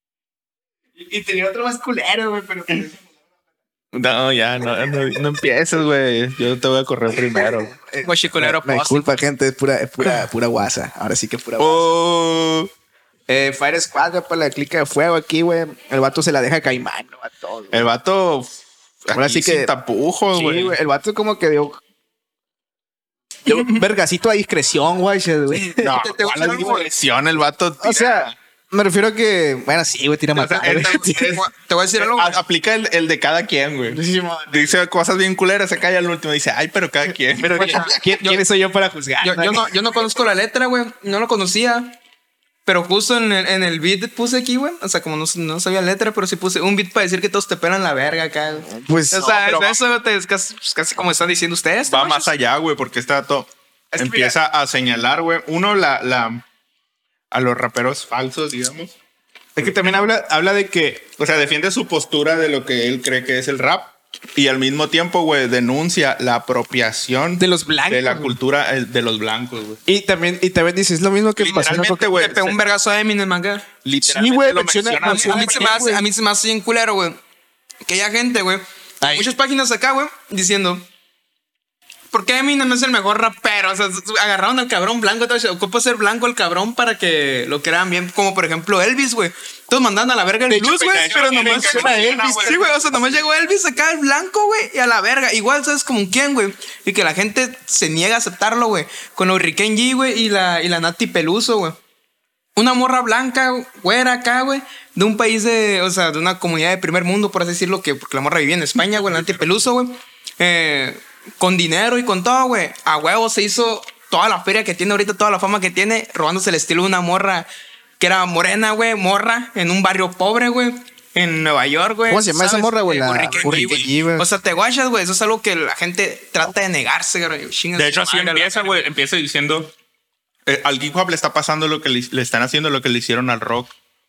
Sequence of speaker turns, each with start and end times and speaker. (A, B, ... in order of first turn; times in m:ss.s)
0:01.0-0:03.1 A
0:03.9-0:07.7 B
0:07.3-0:11.9 A
0:08.0-0:09.1 C
0:11.6-0:12.7 B
0:13.3-0:17.9 A
0:17.7-0:18.5 B
0:19.0-0:20.8 B
0:19.1-0:19.7 A
0:20.3-0:21.8 A
0:23.4-0:26.7 A
0:25.8-0:28.4 B
0:25.9-0:26.9 C
0:27.8-0:31.4 A
0:30.4-0:31.4 B
0:30.4-0:32.4 C
0:32.0-0:38.0 B
0:33.9-0:34.8 A
0:37.4-0:39.7 A
0:37.5-0:38.4 C
0:39.2-0:42.0 C
0:42.6-0:52.3 C
0:48.6-0:49.5 A
0:49.3-0:49.8 B
0:51.9-0:56.4 B
0:53.9-0:54.4 A
0:57.3-0:58.9 B
0:59.6-1:01.1 A
1:01.2-1:09.8 B
1:07.4-1:08.4 A
1:09.8-1:12.1 A
1:11.4-1:12.6 B
1:12.1-1:13.7 C
1:13.8-1:15.9 B
1:14.0-1:16.0 A
1:15.0-1:17.2 C
1:17.8-1:20.8 C
1:19.0-1:19.3 A
1:22.1-1:41.8 C
1:30.5-1:32.7 A
1:30.7-1:33.2 B
1:42.6-1:57.5 C
1:58.0-2:08.9 C
2:02.1-2:04.3 A
2:03.4-2:03.9 B
2:07.8-2:09.7 B
2:10.4-2:13.7 B